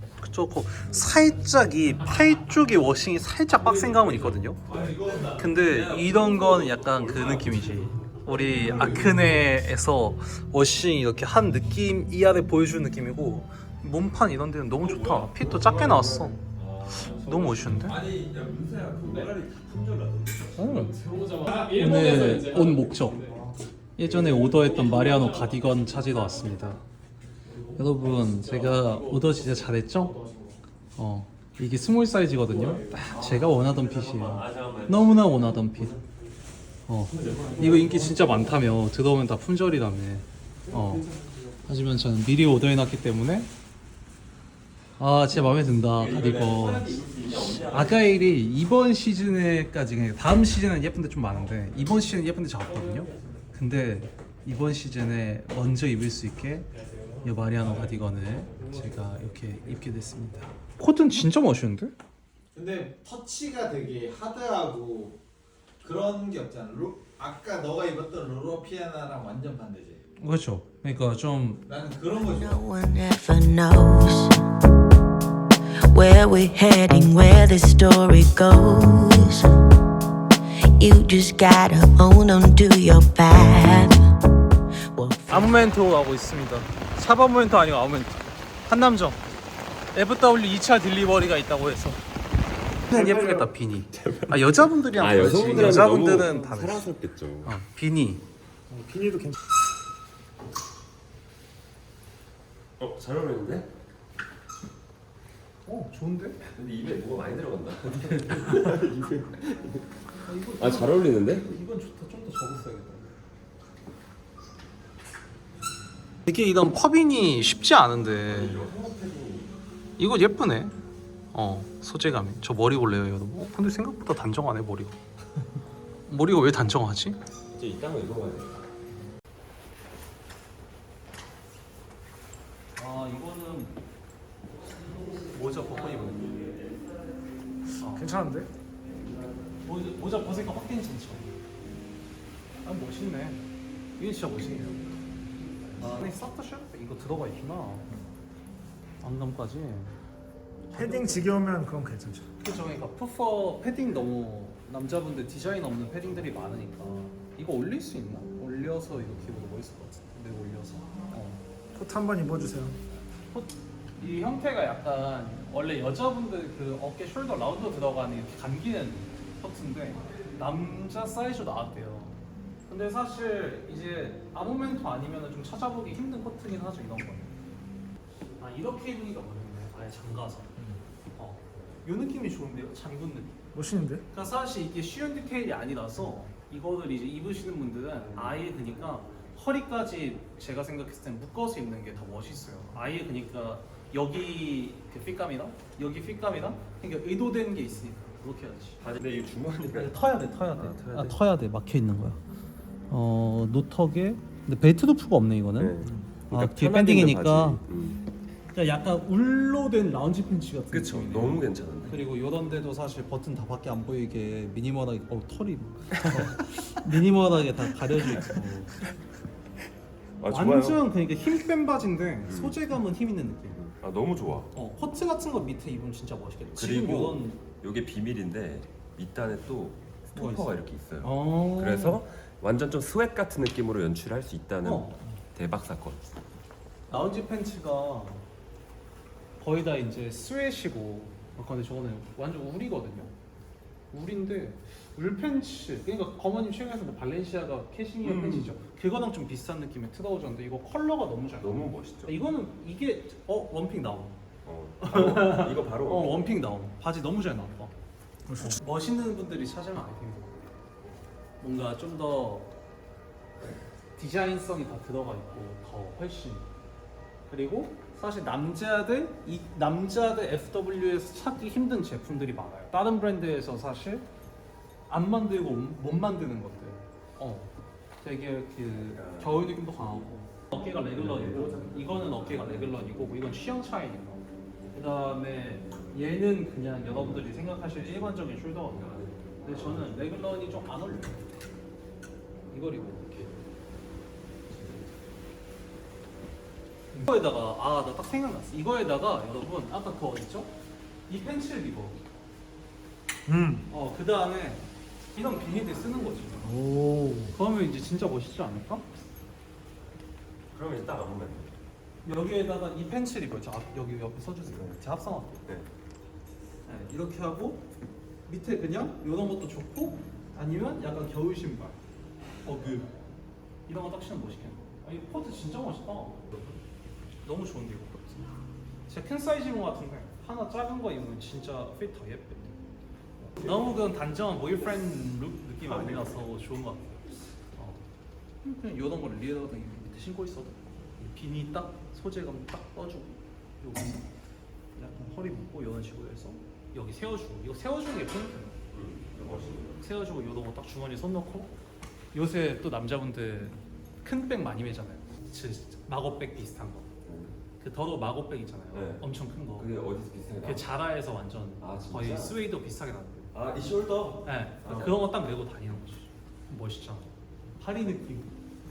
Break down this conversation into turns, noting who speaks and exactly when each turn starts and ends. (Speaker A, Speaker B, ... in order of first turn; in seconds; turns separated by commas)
Speaker A: 0.2-4.6, Speaker B: 4.7-7.5, Speaker A: 5.3-18.0, Speaker B: 8.3-9.3, Speaker B: 14.8-21.1, Speaker A: 20.6-21.0, Speaker A: 21.5-23.3, Speaker A: 24.0-26.8, Speaker A: 27.7-30.2, Speaker A: 30.9-36.0, Speaker B: 32.9-36.0, Speaker A: 36.9-41.0, Speaker B: 37.1-38.1, Speaker A: 41.7-43.5, Speaker A: 45.0-47.0, Speaker B: 45.9-48.1, Speaker A: 47.7-56.7, Speaker A: 57.2-61.9, Speaker C: 62.5-65.2, Speaker C: 65.8-70.0, Speaker A: 70.2-71.6, Speaker C: 71.7-72.7, Speaker D: 72.2-74.4, Speaker D: 75.9-79.6, Speaker D: 80.8-84.0, Speaker D: 84.9-85.7, Speaker A: 85.3-89.2, Speaker A: 89.9-92.0, Speaker A: 92.9-96.9, Speaker B: 93.9-94.4, Speaker B: 95.0-97.6, Speaker A: 97.4-98.2, Speaker E: 98.7-99.3, Speaker B: 102.8-103.7, Speaker A: 105.7-106.4, Speaker B: 106.5-109.9, Speaker A: 110.2-113.1, Speaker B: 110.6-111.5, Speaker A: 116.2-118.6, Speaker B: 118.3-119.5, Speaker A: 120.0-120.7, Speaker A: 121.3-125.0, Speaker A: 126.1-127.2, Speaker B: 127.5-128.7, Speaker A: 132.8-133.8, Speaker A: 135.3-136.3, Speaker A: 137.8-138.1, Speaker E: 137.9-138.5, Speaker A: 139.7-141.3, Speaker A: 142.6-143.4, Speaker A: 144.0-144.9, Speaker A: 145.8-147.9, Speaker A: 149.0-150.0, Speaker A: 150.7-151.4, Speaker E: 151.2-152.2, Speaker A: 152.4-161.4, Speaker E: 161.7-162.7, Speaker A: 163.3-177.3, Speaker A: 178.4-180.6, Speaker A: 181.2-198.8, Speaker E: 183.6-184.0, Speaker B: 198.8-200.0, Speaker A: 199.7-202.2, Speaker B: 200.5-201.2, Speaker A: 202.9-207.6, Speaker B: 205.6-208.0, Speaker A: 208.5-218.7, Speaker B: 210.7-212.1, Speaker B: 220.2-220.8, Speaker A: 220.3-223.6, Speaker B: 222.3-222.6, Speaker B: 223.5-224.5, Speaker A: 224.5-227.4, Speaker B: 226.6-236.0, Speaker A: 230.1-232.0, Speaker A: 234.6-235.0, Speaker A: 236.9-238.2, Speaker A: 239.4-243.1, Speaker A: 243.9-254.2, Speaker B: 248.0-248.5, Speaker B: 251.4-252.1, Speaker B: 254.4-256.3, Speaker A: 254.8-257.7, Speaker A: 258.4-260.5, Speaker A: 261.4-262.5, Speaker A: 263.9-266.5, Speaker A: 267.3-274.0, Speaker A: 274.9-288.9, Speaker B: 278.9-279.9, Speaker B: 280.6-282.9, Speaker B: 288.5-290.0, Speaker A: 289.4-291.3, Speaker A: 292.5-293.3, Speaker B: 294.5-294.9, Speaker A: 296.9-300.5, Speaker A: 301.1-302.0, Speaker E: 303.3-303.6, Speaker A: 303.7-306.5, Speaker E: 306.5-307.3, Speaker A: 307.3-308.8, Speaker B: 310.5-311.5, Speaker A: 312.0-315.4, Speaker B: 314.5-314.8, Speaker A: 316.6-317.6, Speaker A: 318.3-321.8, Speaker A: 322.4-322.9, Speaker A: 323.7-326.6, Speaker A: 327.2-328.3, Speaker A: 328.9-332.6, Speaker A: 333.2-337.0, Speaker A: 337.5-337.8, Speaker A: 338.4-344.1, Speaker A: 344.7-348.6, Speaker B: 348.7-349.8, Speaker A: 349.8-351.5, Speaker A: 352.1-356.9, Speaker B: 357.0-357.4, Speaker A: 357.6-359.7, Speaker B: 358.7-360.7, Speaker A: 360.4-363.3, Speaker B: 361.6-362.4, Speaker B: 363.3-365.0, Speaker A: 364.2-368.3